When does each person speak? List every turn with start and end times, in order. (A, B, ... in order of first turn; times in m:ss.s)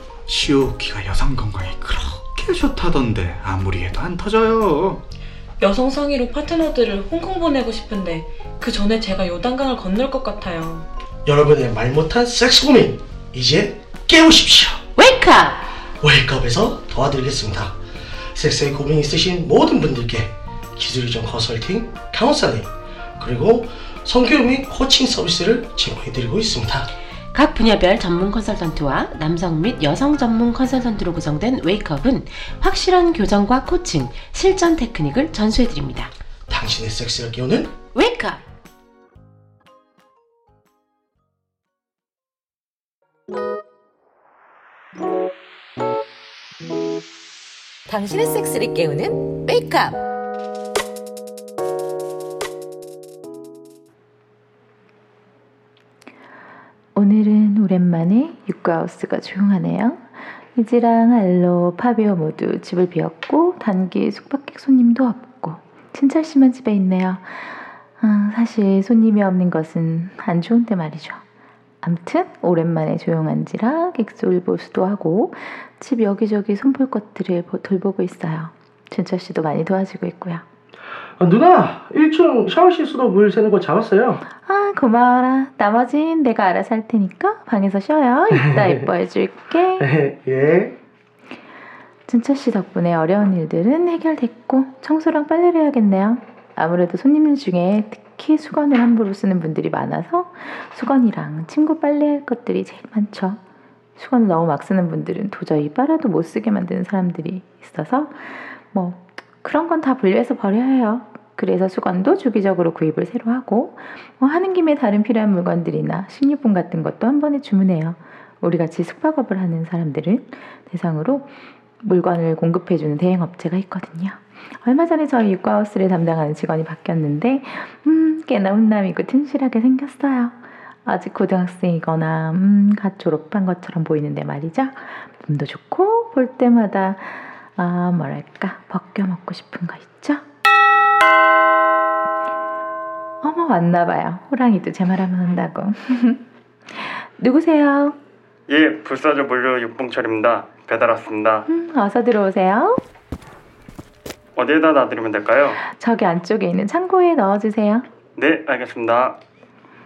0:00.3-0:05.0 A
0:05.6-0:10.8 B
0:11.2-0:14.8 C
0:15.0-0:15.7 D
0:16.0-0:17.8 C
0:18.3-0:26.9 C
0:27.3-0:36.1 D
0:36.5-0:37.7 C
0:37.9-0:38.4 D
0:47.9-0:50.0 E
0:56.9-1:00.0 F
1:00.5-1:11.2 F
1:11.8-1:20.4 F
1:21.2-1:24.2 C
1:24.4-1:29.9 F
1:28.3-1:28.8 C
1:29.8-1:30.8 C
1:32.1-1:43.4 F
1:44.0-2:01.3 F
2:01.8-2:20.2 F
2:23.2-2:28.0 F
2:28.5-2:31.5 G
2:31.5-2:32.8 F
2:34.4-2:35.6 G
2:35.6-2:37.8 F
2:38.2-2:39.2 G